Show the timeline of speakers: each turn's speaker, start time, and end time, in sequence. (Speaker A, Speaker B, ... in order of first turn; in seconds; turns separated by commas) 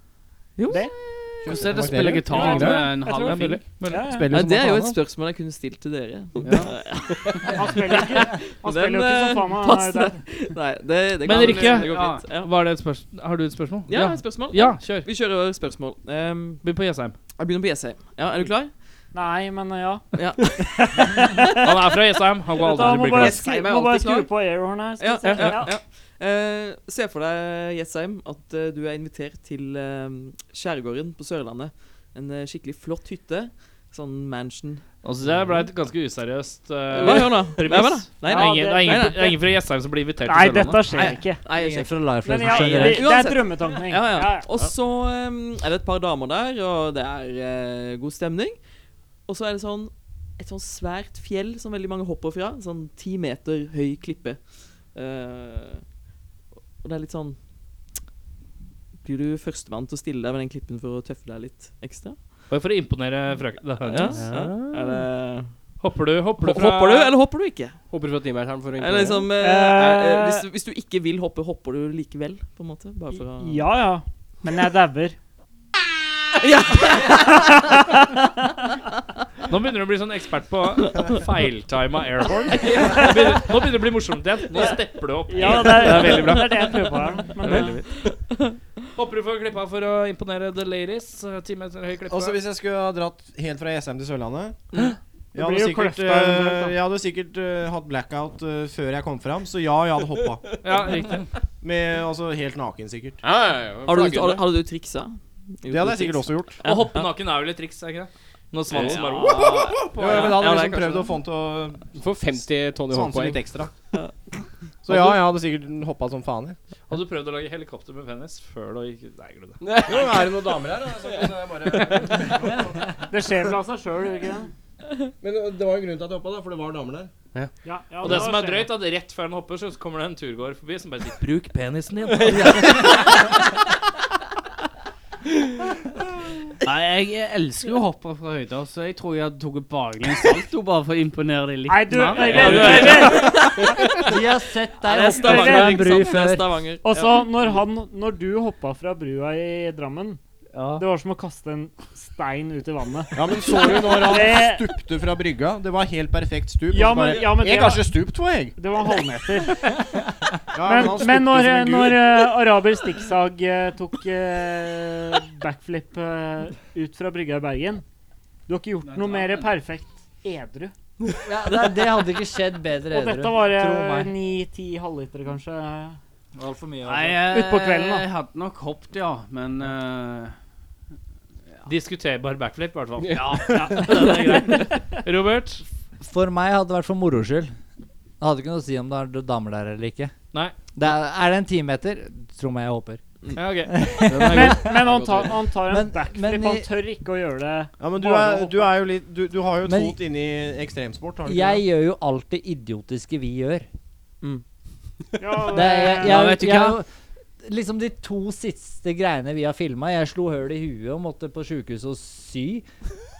Speaker A: 0.6-1.7, Speaker B: 0.7-0.9, Speaker C: 1.4-3.0, Speaker D: 1.4-3.6, Speaker B: 2.3-4.3, Speaker E: 3.0-4.2, Speaker C: 4.0-5.0, Speaker A: 4.3-12.5, Speaker D: 6.4-6.7, Speaker B: 7.4-10.3, Speaker E: 11.2-15.1, Speaker D: 11.2-12.2, Speaker A: 13.9-16.6, Speaker E: 16.6-17.1, Speaker A: 17.3-19.0, Speaker B: 19.1-21.8, Speaker A: 20.1-21.3, Speaker E: 21.6-23.4, Speaker B: 22.5-25.7, Speaker F: 23.2-24.3, Speaker A: 25.0-34.9, Speaker F: 25.2-25.6, Speaker E: 35.0-41.2, Speaker A: 36.9-39.4, Speaker B: 38.2-39.3, Speaker B: 40.2-41.5, Speaker A: 40.9-55.9, Speaker G: 41.5-43.3, Speaker B: 42.2-44.7, Speaker A: 56.8-57.4, Speaker A: 59.0-62.5, Speaker E: 62.5-65.0, Speaker A: 63.8-65.6, Speaker B: 64.2-64.5, Speaker E: 65.8-67.1, Speaker A: 66.4-67.8, Speaker F: 67.9-69.2, Speaker A: 68.8-73.7, Speaker B: 69.3-70.5, Speaker B: 73.1-75.2, Speaker A: 76.4-77.5, Speaker B: 77.1-78.2, Speaker E: 79.5-87.9, Speaker A: 82.6-83.0, Speaker B: 84.5-87.8, Speaker E: 88.9-92.3, Speaker C: 92.1-94.6, Speaker C: 95.3-100.6, Speaker B: 95.3-96.8, Speaker E: 100.6-101.3, Speaker C: 101.6-103.2, Speaker F: 103.2-104.4, Speaker A: 103.8-107.1, Speaker C: 105.7-106.6, Speaker E: 106.6-110.4, Speaker A: 108.7-111.2, Speaker C: 109.8-113.7, Speaker F: 111.9-113.4, Speaker C: 114.8-116.6, Speaker F: 114.9-115.2, Speaker E: 116.9-119.6, Speaker F: 119.6-120.5, Speaker C: 119.8-122.6, Speaker B: 123.1-124.5, Speaker C: 125.2-127.1, Speaker B: 127.6-128.7, Speaker E: 128.0-133.2, Speaker F: 132.2-132.6, Speaker D: 136.6-143.1, Speaker B: 141.7-143.8, Speaker E: 142.2-143.5, Speaker A: 142.3-143.9, Speaker G: 144.0-146.5, Speaker A: 144.8-147.4, Speaker B: 145.0-146.1, Speaker B: 146.8-150.2, Speaker D: 150.5-150.8, Speaker B: 150.8-154.7, Speaker C: 153.1-158.5, Speaker B: 156.7-157.9, Speaker B: 158.6-159.9, Speaker C: 160.5-162.1, Speaker B: 160.6-167.8, Speaker B: 168.5-170.7, Speaker D: 168.8-169.5, Speaker G: 171.2-174.1, Speaker B: 172.9-176.0, Speaker G: 176.3-177.3, Speaker D: 176.8-180.3, Speaker B: 177.2-178.1, Speaker E: 181.7-185.6, Speaker F: 183.0-183.9, Speaker D: 183.1-184.6, Speaker G: 186.0-187.5, Speaker G: 188.2-190.1, Speaker G: 190.7-193.0, Speaker E: 193.3-193.7, Speaker G: 193.7-194.8, Speaker F: 194.1-195.3, Speaker B: 194.3-198.7, Speaker G: 195.6-196.7, Speaker C: 197.8-201.6, Speaker G: 199.6-200.0, Speaker G: 201.2-203.7, Speaker B: 205.2-206.3, Speaker G: 205.5-206.9, Speaker D: 206.0-206.8, Speaker G: 207.4-212.7